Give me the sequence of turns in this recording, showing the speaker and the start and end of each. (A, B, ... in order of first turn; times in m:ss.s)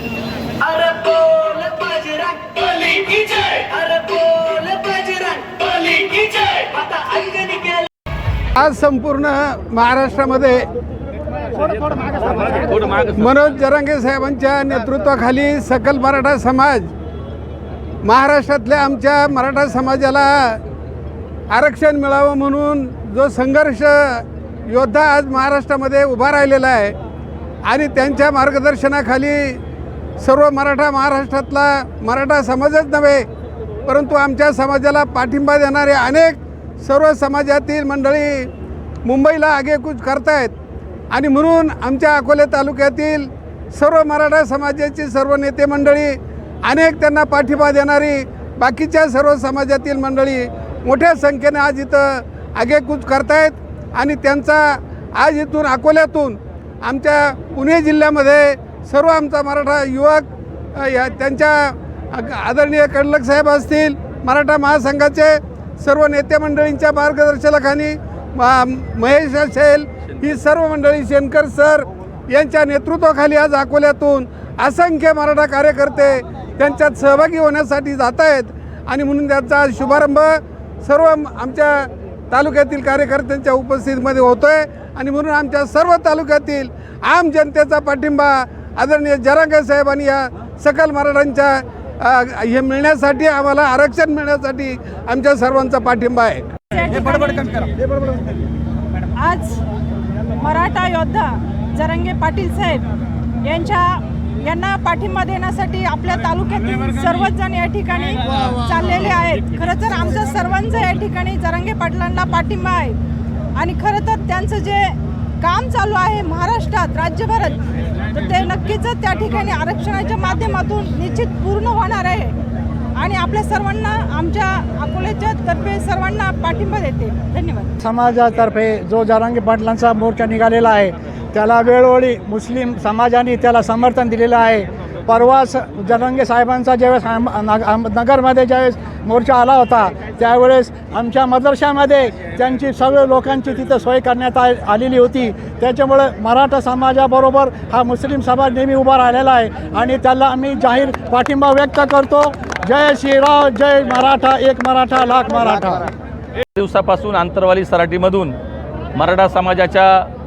0:00.6-0:07.9 A
0:08.6-0:10.7 B
0:12.3-0:13.4 C
0:13.2-0:16.9 B
0:18.0-0:20.6 B
0:21.5-0:27.0 B
0:27.7-0:29.6 B
0:30.2-0:33.3 B
0:33.9-0:38.5 B
0:39.0-0:40.5 B
0:41.1-1:36.5 B
1:36.7-1:37.6 D
1:39.2-1:39.6 D
1:40.3-1:42.9 D
1:43.4-1:53.0 D
1:53.6-2:02.4 D
2:03.0-2:07.7 D
2:07.8-2:35.9 E
2:36.6-2:38.4 C
2:39.0-2:40.1 C